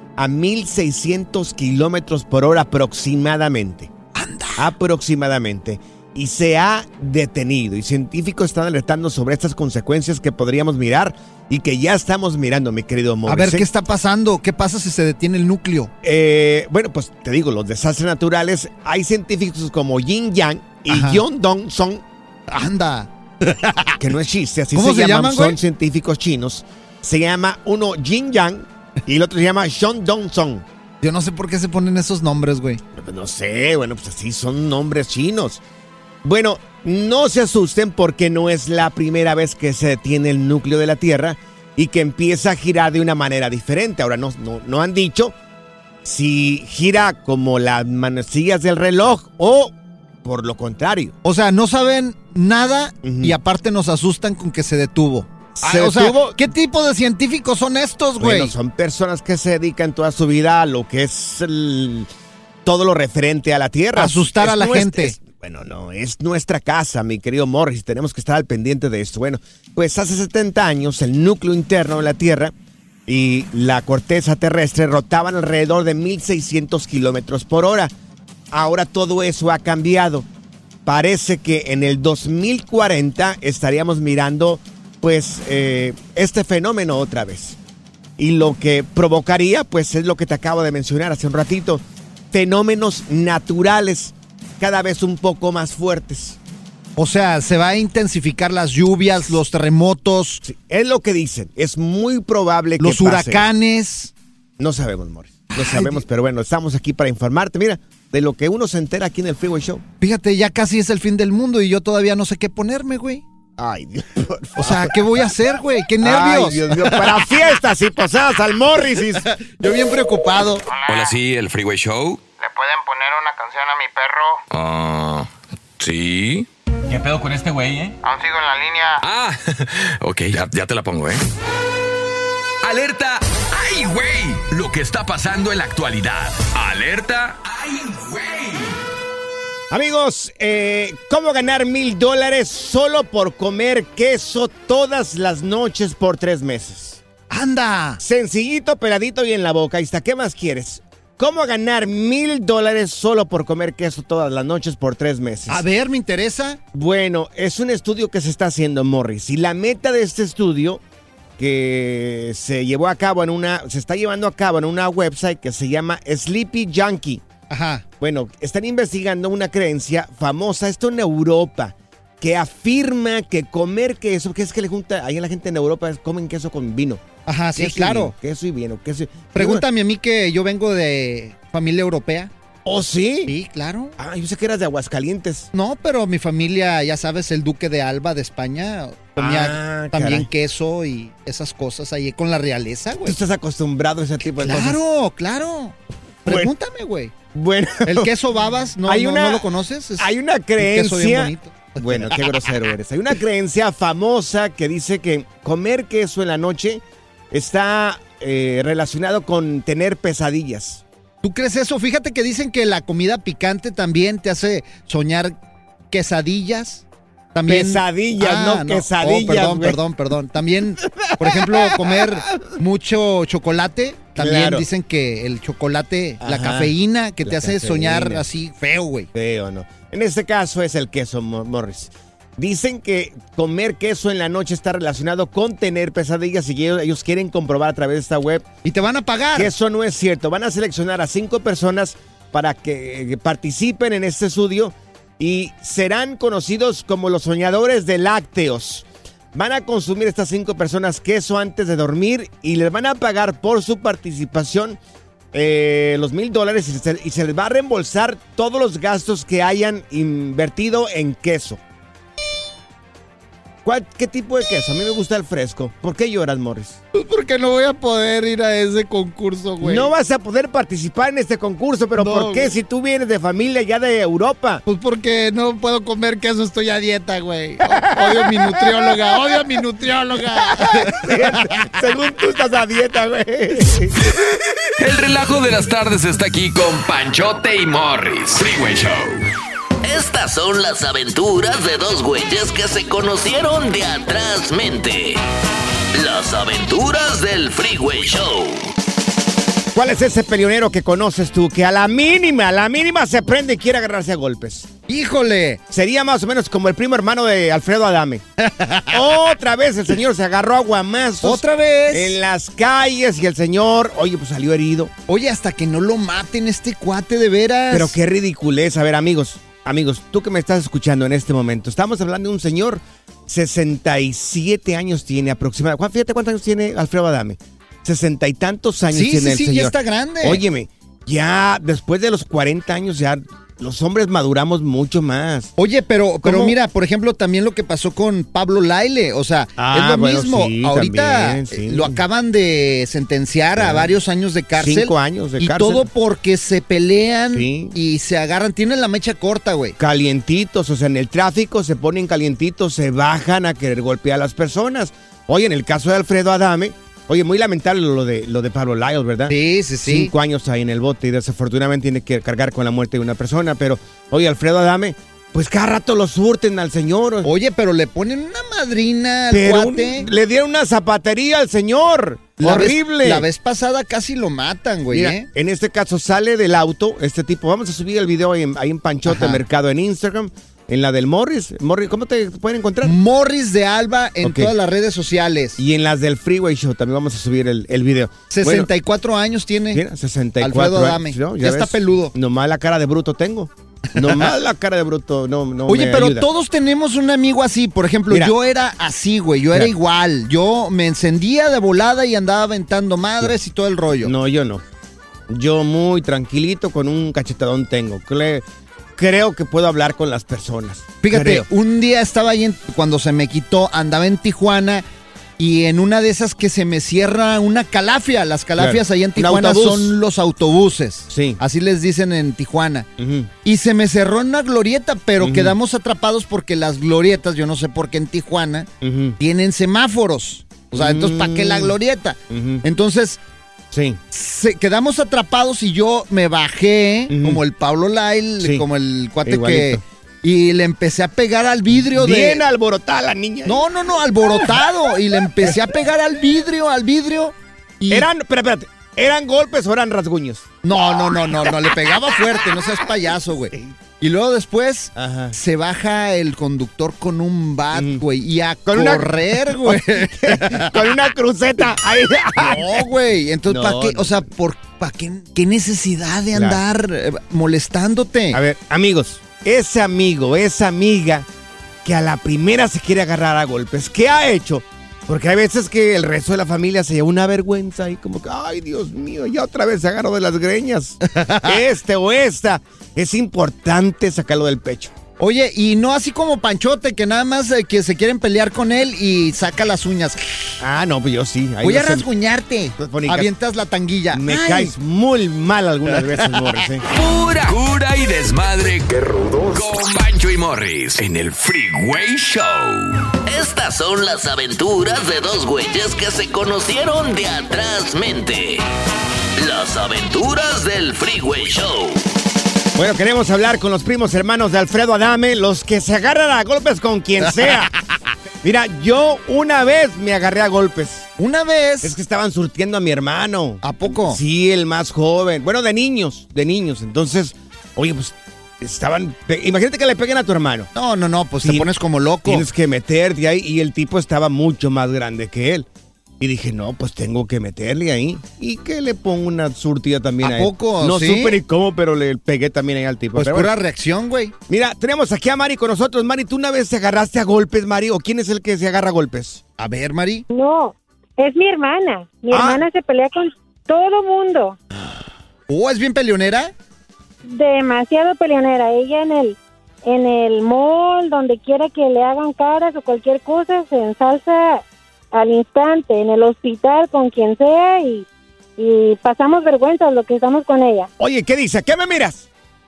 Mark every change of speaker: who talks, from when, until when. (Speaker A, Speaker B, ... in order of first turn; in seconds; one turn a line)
Speaker A: 0.2-3.9
Speaker B: 4.2-4.7
Speaker A: 4.6-13.7
Speaker B: 13.3-15.9
Speaker A: 16.0-22.0
Speaker B: 20.9-21.2
Speaker B: 22.5-24.0
Speaker A: 24.0-30.6
Speaker B: 24.7-25.6
Speaker B: 31.0-32.8
Speaker A: 32.9-35.6
Speaker A: 36.2-45.4
Speaker A: 46.0-51.1
Speaker B: 51.2-58.5
Speaker A: 53.0-53.4
Speaker A: 55.6-56.4
Speaker A: 58.2-62.1
Speaker A: 62.6-72.5
Speaker B: 64.0-65.2
Speaker A: 73.1-77.9
Speaker A: 78.5-80.3
Speaker A: 80.9-87.6
Speaker A: 88.2-96.4
Speaker B: 97.0-100.4
Speaker A: 100.4-103.5
Speaker B: 102.8-104.1
Speaker A: 104.6-109.8
Speaker B: 105.5-106.0
Speaker B: 110.0-113.2
Speaker A: 113.6-115.1
Speaker B: 114.6-117.2
Speaker A: 116.0-119.3
Speaker B: 119.2-120.7
Speaker C: 120.7-121.2
Speaker D: 120.9-122.2
Speaker C: 122.4-124.4
Speaker D: 124.6-125.2
Speaker D: 125.8-128.0
Speaker C: 128.0-129.1
Speaker D: 129.0-129.4
Speaker D: 130.0-131.2
Speaker D: 132.6-138.8
Speaker A: 139.7-147.0
Speaker B: 147.3-148.0
Speaker A: 148.0-155.6
Speaker B: 155.5-156.6
Speaker A: 156.7-160.8
Speaker A: 161.4-167.2
Speaker B: 167.5-167.8
Speaker A: 168.0-177.0
Speaker B: 177.3-178.1
Speaker A: 177.6-179.6
Speaker B: 179.3-182.3
Speaker A: 182.7-183.3
Speaker B: 183.3-183.9
Speaker A: 184.0-185.5
Speaker B: 185.5-193.2
Speaker A: 189.2-190.3
Speaker A: 193.0-194.8
Speaker B: 194.2-197.1
Speaker A: 196.3-196.5
Speaker A: 197.3-198.1
Speaker B: 197.8-202.6
Speaker A: 198.9-210.8
Speaker B: 211.2-215.4
Speaker B: 215.9-229.1
Speaker A: 217.5-219.8
Speaker A: 221.0-222.4
Speaker A: 224.2-224.7
Speaker A: 226.2-228.2
Speaker A: 229.1-238.4
Speaker B: 238.6-239.5
Speaker A: 239.3-254.8
Speaker A: 255.3-261.6
Speaker A: 263.6-266.8
Speaker B: 266.9-269.9
Speaker A: 269.6-274.6
Speaker B: 272.0-272.6
Speaker B: 274.7-281.8
Speaker A: 277.8-278.3
Speaker A: 280.6-284.0
Speaker D: 284.8-289.2
Speaker E: 289.8-295.2
Speaker E: 295.9-298.7
Speaker A: 299.8-304.7
Speaker B: 304.9-305.6
Speaker A: 305.7-308.2
Speaker B: 308.4-309.0
Speaker A: 308.9-314.9
Speaker B: 311.2-312.2
Speaker B: 315.1-318.0
Speaker A: 317.7-335.6
Speaker B: 328.9-330.4
Speaker B: 335.6-349.8
Speaker A: 336.2-336.6
Speaker A: 339.6-342.0
Speaker A: 343.6-343.9
Speaker A: 344.6-345.9
Speaker A: 347.3-347.8
Speaker A: 349.8-367.3
Speaker B: 359.3-360.1
Speaker B: 367.2-370.1
Speaker A: 369.3-373.3
Speaker B: 372.4-375.3
Speaker A: 374.9-383.0
Speaker B: 379.1-379.4
Speaker B: 382.8-385.6
Speaker A: 384.2-384.5
Speaker A: 385.6-388.7
Speaker B: 388.3-389.8
Speaker A: 389.7-396.3
Speaker B: 390.4-392.1
Speaker B: 394.0-394.3
Speaker B: 395.7-404.1
Speaker A: 398.1-398.3
Speaker A: 404.0-404.6
Speaker A: 405.3-408.4
Speaker A: 409.0-411.5
Speaker B: 411.0-414.9
Speaker B: 415.4-422.9
Speaker A: 418.6-420.0
Speaker A: 421.1-421.4
Speaker A: 423.0-423.3
Speaker B: 423.4-433.2
Speaker A: 425.2-425.6
Speaker A: 428.8-429.2
Speaker A: 430.7-431.8
Speaker A: 432.3-432.6
Speaker A: 433.7-434.0
Speaker B: 434.1-442.5
Speaker A: 437.1-437.4
Speaker A: 438.4-438.7
Speaker A: 439.2-439.8
Speaker A: 441.7-443.6
Speaker B: 443.4-448.1
Speaker A: 447.9-451.0
Speaker B: 450.6-460.9
Speaker A: 454.9-455.4
Speaker A: 457.7-458.0
Speaker A: 458.7-462.9
Speaker B: 462.4-468.4
Speaker A: 463.5-464.3
Speaker A: 466.3-466.6
Speaker A: 468.3-471.3
Speaker A: 471.9-484.9
Speaker B: 481.1-481.6
Speaker B: 485.2-490.6
Speaker A: 490.6-492.1
Speaker B: 491.6-494.8
Speaker A: 492.8-493.3
Speaker A: 494.1-496.9
Speaker B: 495.9-496.6
Speaker D: 496.9-503.0
Speaker E: 503.3-508.6
Speaker E: 509.4-512.0
Speaker A: 512.8-517.7
Speaker A: 518.4-521.1
Speaker B: 521.2-522.0
Speaker A: 521.8-530.7
Speaker B: 523.6-524.2
Speaker B: 530.8-532.5
Speaker A: 531.4-531.7
Speaker A: 532.2-535.7
Speaker A: 536.2-543.5
Speaker B: 540.2-541.4
Speaker B: 543.2-544.3
Speaker A: 544.5-549.4
Speaker B: 549.6-550.3
Speaker F: 550.3-554.6
Speaker A: 552.3-552.7
Speaker B: 555.5-556.5
Speaker F: 557.2-568.1
Speaker F: 568.6-570.9
Speaker A: 571.0-572.3